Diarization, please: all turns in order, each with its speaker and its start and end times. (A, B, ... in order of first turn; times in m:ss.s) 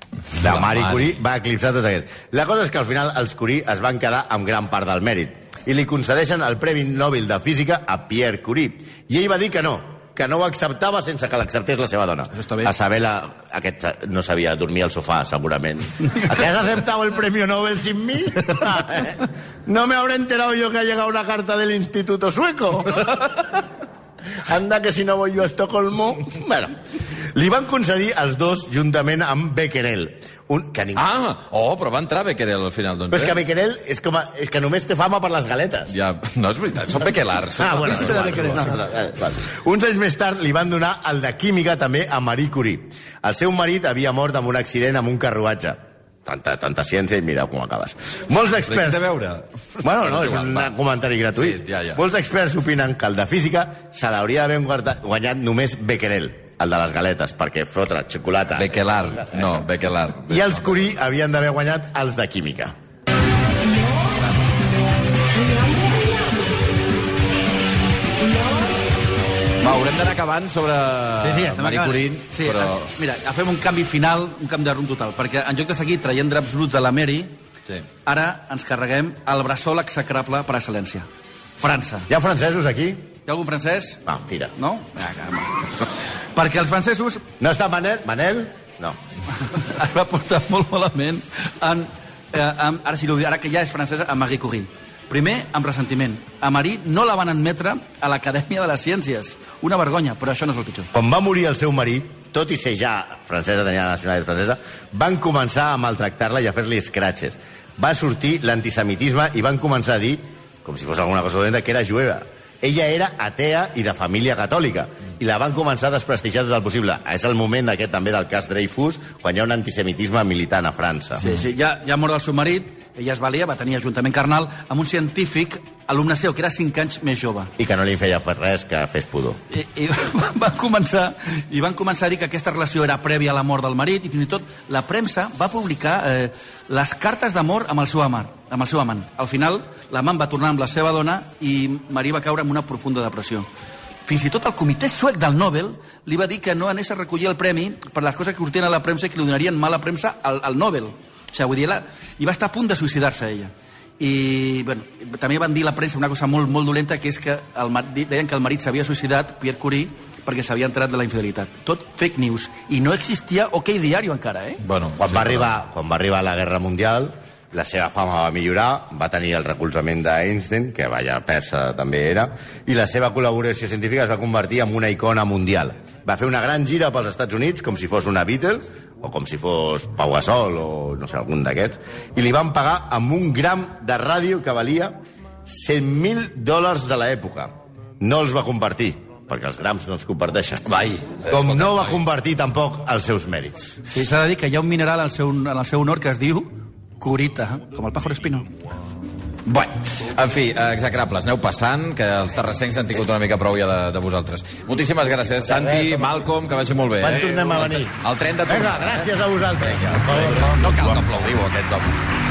0:00.4-0:23.3 A
0:00.4-0:01.1 B
0:12.3-0:12.7 C
0:24.4-0:26.8 A
0:27.3-0:31.0 A
0:31.0-0:33.4 B
0:33.1-0:35.9 A
0:35.9-0:38.6 B
0:37.6-0:49.1 A
0:37.8-0:38.7 C
0:48.7-0:50.7 B
0:49.8-0:59.5 A
0:51.4-0:52.0 B
0:58.6-1:00.8 B
1:00.3-1:02.7 A
1:09.6-1:12.9 B
1:11.2-1:17.4 C
1:18.0-1:21.1 C
1:21.6-1:22.1 C
1:22.1-1:23.1 A
1:23.3-1:24.0 C
1:24.0-1:24.5 A
1:24.6-1:27.2 C
1:27.4-1:29.0 A
1:29.4-1:40.9 C
1:40.9-2:01.2 A
2:01.2-2:07.5 C
2:07.6-2:09.4 A
2:09.5-2:23.5 C
2:24.1-2:44.6 C
2:44.6-2:45.5 B
2:45.0-3:10.6 A
3:10.6-3:12.0 B
3:11.3-3:13.8 A
3:13.9-3:18.5 C
3:20.0-3:29.1 B
3:25.5-3:26.0 A
3:27.0-3:31.0 A
3:29.8-3:32.0 B